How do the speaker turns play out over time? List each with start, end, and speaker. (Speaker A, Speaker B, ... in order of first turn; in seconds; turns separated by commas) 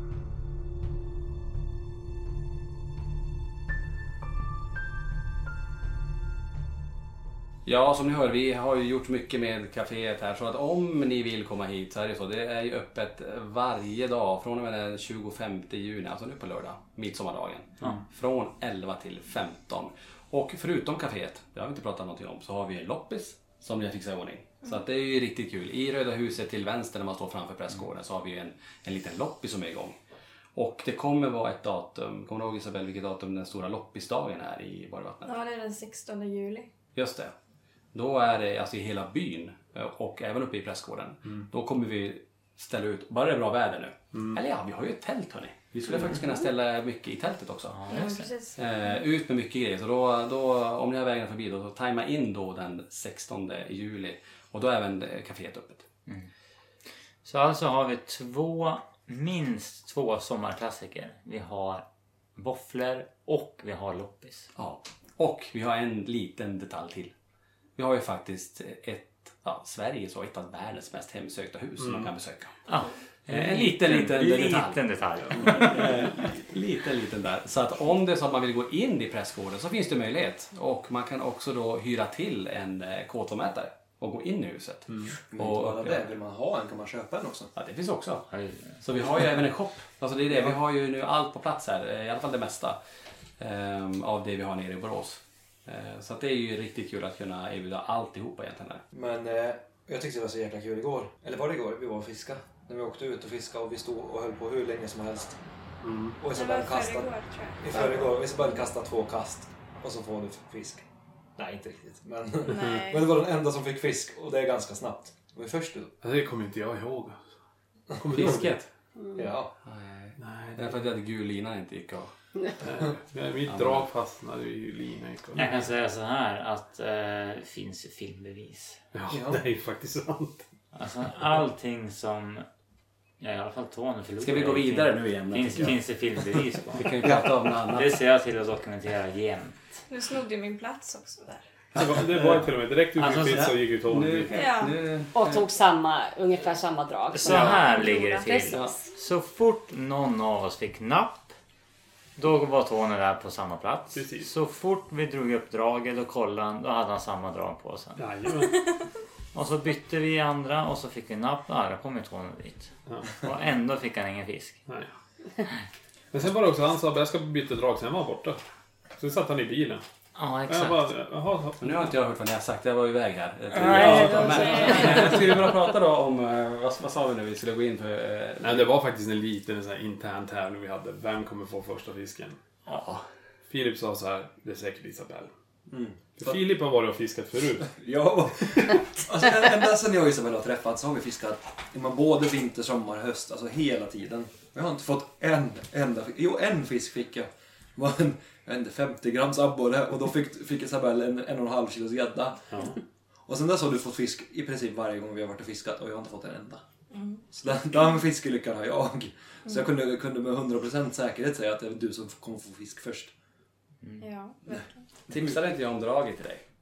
Speaker A: 7.6-29.9, Speaker A: 30.5-35.4, Speaker B: 35.2-36.7, Speaker A: 36.9-37.3, Speaker A: 37.9-47.8, Speaker C: 47.7-48.3, Speaker B: 47.9-48.6, Speaker A: 48.5-55.8, Speaker C: 57.2-61.8, Speaker C: 62.4-64.5, Speaker A: 64.5-67.1, Speaker A: 67.8-72.5, Speaker D: 71.8-72.1, Speaker C: 72.7-75.9, Speaker A: 73.3-74.8, Speaker A: 75.3-86.1, Speaker D: 84.9-85.1, Speaker E: 85.3-87.5, Speaker A: 87.5-88.3, Speaker C: 88.3-88.8, Speaker A: 88.8-92.8, Speaker A: 93.4-98.8, Speaker E: 98.9-105.4, Speaker D: 105.8-106.2, Speaker E: 106.2-110.8, Speaker B: 106.3-108.6, Speaker E: 111.4-115.9, Speaker B: 112.5-113.2, Speaker D: 116.0-117.2, Speaker D: 118.0-118.5, Speaker A: 118.1-118.7, Speaker F: 119.0-119.3, Speaker E: 119.2-119.5, Speaker A: 119.6-122.1, Speaker D: 120.2-120.8, Speaker D: 122.6-125.7, Speaker A: 123.4-123.9, Speaker C: 125.3-128.8, Speaker D: 128.9-130.4, Speaker E: 129.1-129.4, Speaker C: 130.7-132.4, Speaker C: 133.2-136.9, Speaker A: 134.2-135.8, Speaker A: 136.7-138.0, Speaker C: 137.7-139.6, Speaker B: 139.9-141.4, Speaker A: 141.7-142.5, Speaker D: 141.8-144.3, Speaker C: 142.9-143.5, Speaker A: 143.3-145.4, Speaker B: 144.3-144.8, Speaker F: 145.1-148.8, Speaker C: 147.1-151.3, Speaker C: 152.2-158.0, Speaker D: 153.9-154.3, Speaker D: 158.0-158.6, Speaker C: 159.3-164.6, Speaker D: 162.9-163.1, Speaker D: 166.1-168.4, Speaker D: 169.0-169.8, Speaker C: 170.2-170.9, Speaker D: 170.5-171.8, Speaker A: 171.6-178.7, Speaker C: 173.5-175.1, Speaker D: 173.7-174.2, Speaker B: 174.3-175.0, Speaker D: 178.4-182.4, Speaker A: 182.7-183.0, Speaker D: 183.5-185.3, Speaker E: 185.7-186.4, Speaker D: 186.2-187.7, Speaker E: 187.6-202.6, Speaker D: 202.5-202.8, Speaker E: 203.3-206.6, Speaker B: 206.9-207.2, Speaker E: 207.3-213.1, Speaker B: 207.8-208.0, Speaker B: 209.4-209.7, Speaker B: 214.0-214.8, Speaker A: 215.1-216.4